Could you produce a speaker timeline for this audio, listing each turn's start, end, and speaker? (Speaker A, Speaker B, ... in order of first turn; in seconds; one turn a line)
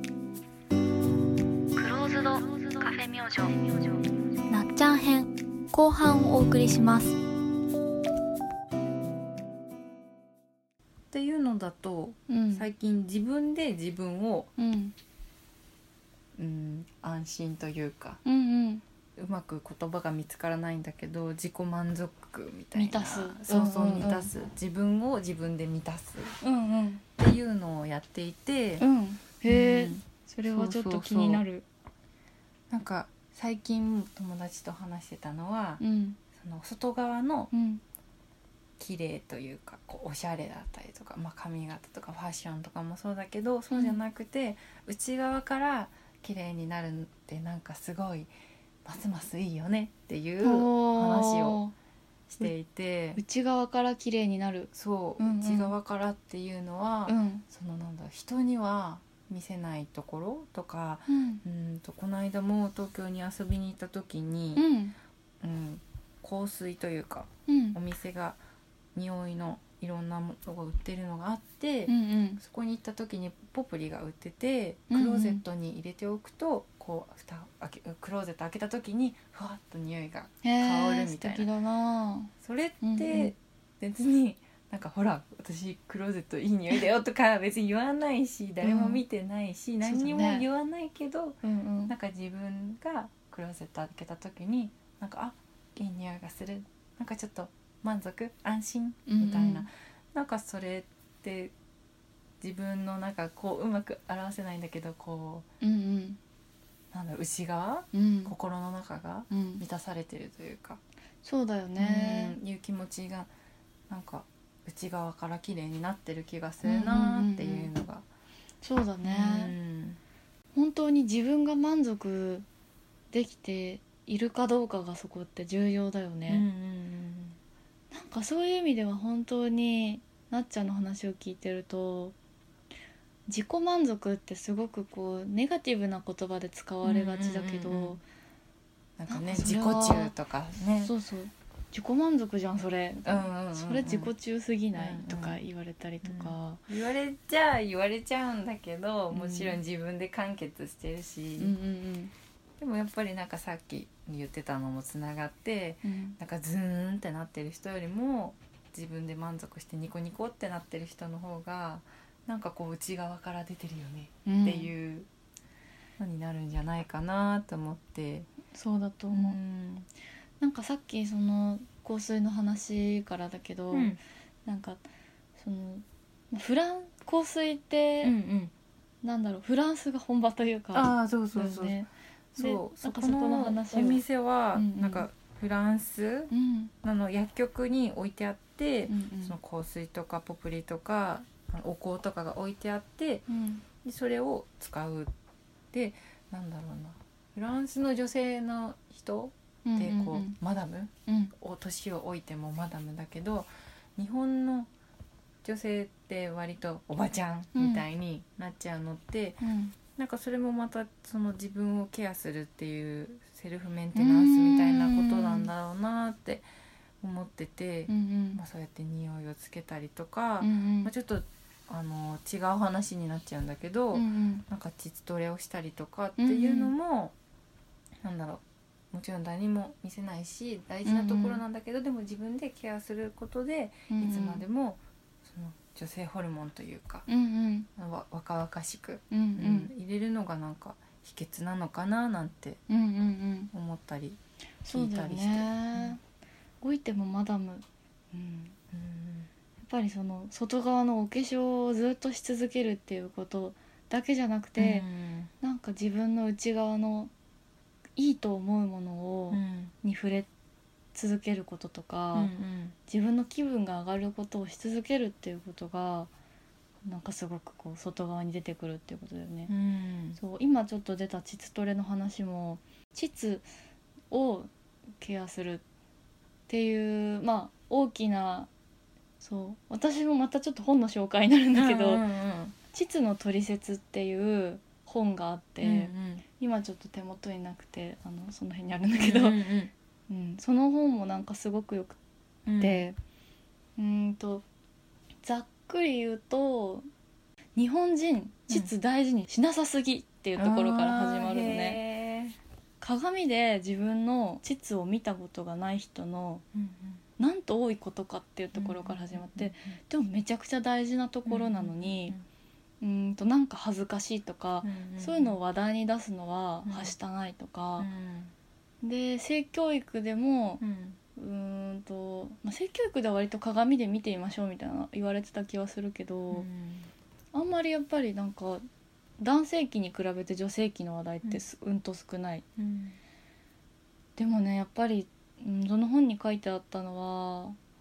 Speaker A: 1.8-4.0
Speaker A: 4.5-7.2
Speaker B: 11.1-14.5
Speaker C: 12.3-12.7
Speaker C: 14.6-14.9
Speaker B: 16.4-18.2
Speaker C: 18.2-18.8
Speaker B: 19.2-26.4
Speaker C: 22.8-24.3
Speaker C: 26.4-27.0
Speaker B: 27.2-28.8
Speaker C: 28.8-31.6
Speaker B: 29.5-31.4
Speaker B: 32.7-35.8
Speaker C: 35.8-36.2
Speaker B: 36.4-37.5
Speaker C: 37.5-37.8
Speaker B: 38.8-48.3
Speaker C: 43.7-44.0
Speaker B: 48.9-51.6
Speaker C: 50.4-51.7
Speaker B: 52.3-53.2
Speaker C: 53.2-55.7
Speaker B: 54.7-64.7
Speaker C: 57.1-57.4
Speaker C: 61.1-61.4
Speaker C: 64.5-65.0
Speaker B: 65.4-68.4
Speaker C: 67.5-67.8
Speaker B: 69.0-81.5
Speaker C: 71.9-72.4
Speaker C: 74.9-75.4
Speaker C: 80.4-83.3
Speaker B: 82.4-101.5
Speaker C: 88.6-89.0
Speaker C: 89.8-90.5
Speaker C: 91.4-91.9
Speaker C: 99.1-99.7
Speaker B: 102.4-105.5
Speaker C: 105.6-106.2
Speaker B: 106.9-110.8
Speaker C: 107.9-108.3
Speaker C: 109.3-109.6
Speaker C: 111.2-112.4
Speaker B: 111.8-113.3
Speaker B: 113.9-118.0
Speaker C: 116.6-117.7
Speaker C: 118.6-119.5
Speaker B: 119.0-120.0
Speaker C: 120.5-122.5
Speaker C: 123.1-126.5
Speaker B: 126.3-127.4
Speaker C: 127.9-132.2
Speaker C: 133.3-138.0
Speaker B: 136.8-138.0
Speaker B: 139.0-140.9
Speaker C: 139.1-140.1
Speaker C: 140.8-146.6
Speaker B: 143.1-144.1
Speaker B: 144.8-145.4
Speaker B: 146.0-151.6
Speaker C: 149.1-149.6
Speaker C: 151.4-152.1
Speaker B: 152.6-165.1
Speaker C: 155.8-156.2
Speaker C: 164.3-164.7
Speaker B: 166.0-168.3
Speaker C: 168.5-169.4
Speaker B: 169.1-169.9
Speaker C: 170.4-174.8
Speaker B: 173.7-174.0
Speaker C: 175.4-178.2
Speaker B: 178.0-178.5
Speaker C: 179.0-184.0
Speaker B: 180.7-186.3
Speaker C: 184.6-185.1
Speaker C: 186.3-186.7
Speaker B: 186.8-193.3
Speaker C: 188.9-189.4
Speaker C: 193.3-193.6
Speaker B: 193.8-195.1
Speaker B: 195.7-204.7
Speaker C: 199.7-200.4
Speaker C: 201.1-201.3
Speaker B: 205.4-209.4
Speaker C: 207.6-207.8
Speaker C: 209.4-209.7
Speaker B: 209.9-216.5
Speaker C: 213.9-215.5
Speaker B: 217.0-227.1
Speaker C: 217.9-218.4
Speaker C: 220.4-220.9
Speaker C: 223.9-224.4
Speaker C: 226.2-226.7
Speaker B: 228.0-237.1
Speaker C: 230.8-231.4
Speaker C: 233.9-234.4
Speaker C: 237.1-237.7
Speaker B: 237.8-242.6
Speaker C: 239.1-239.7
Speaker C: 242.7-243.5
Speaker B: 243.5-246.0
Speaker C: 244.6-246.0
Speaker C: 246.6-248.6
Speaker B: 248.7-249.3
Speaker C: 249.6-254.8
Speaker B: 254.6-255.3
Speaker C: 255.4-257.1
Speaker C: 258.0-260.3
Speaker B: 259.3-259.7
Speaker C: 260.9-262.3
Speaker B: 262.1-262.8
Speaker C: 262.9-266.1
Speaker C: 266.9-269.5
Speaker B: 269.5-270.2
Speaker C: 270.2-273.4
Speaker C: 274.1-275.6
Speaker C: 276.5-278.5
Speaker C: 279.2-282.0
Speaker B: 281.5-282.6
Speaker C: 282.7-289.4
Speaker B: 285.6-286.2
Speaker B: 288.9-289.7
Speaker C: 290.1-292.0
Speaker B: 292.5-292.9
Speaker C: 292.6-293.0
Speaker C: 293.8-294.4
Speaker C: 295.2-296.9
Speaker C: 297.6-301.8
Speaker B: 300.4-302.4
Speaker C: 302.8-306.4
Speaker B: 306.5-307.0
Speaker C: 307.2-312.2
Speaker B: 308.6-309.8
Speaker B: 311.3-312.2
Speaker C: 312.8-317.9
Speaker B: 314.6-315.4
Speaker B: 316.6-316.9
Speaker B: 317.8-318.3
Speaker C: 318.8-320.6
Speaker B: 320.6-321.0
Speaker C: 321.2-326.5
Speaker B: 326.3-326.9
Speaker C: 327.3-328.6
Speaker C: 329.2-332.4
Speaker B: 332.6-333.0
Speaker C: 334.2-337.6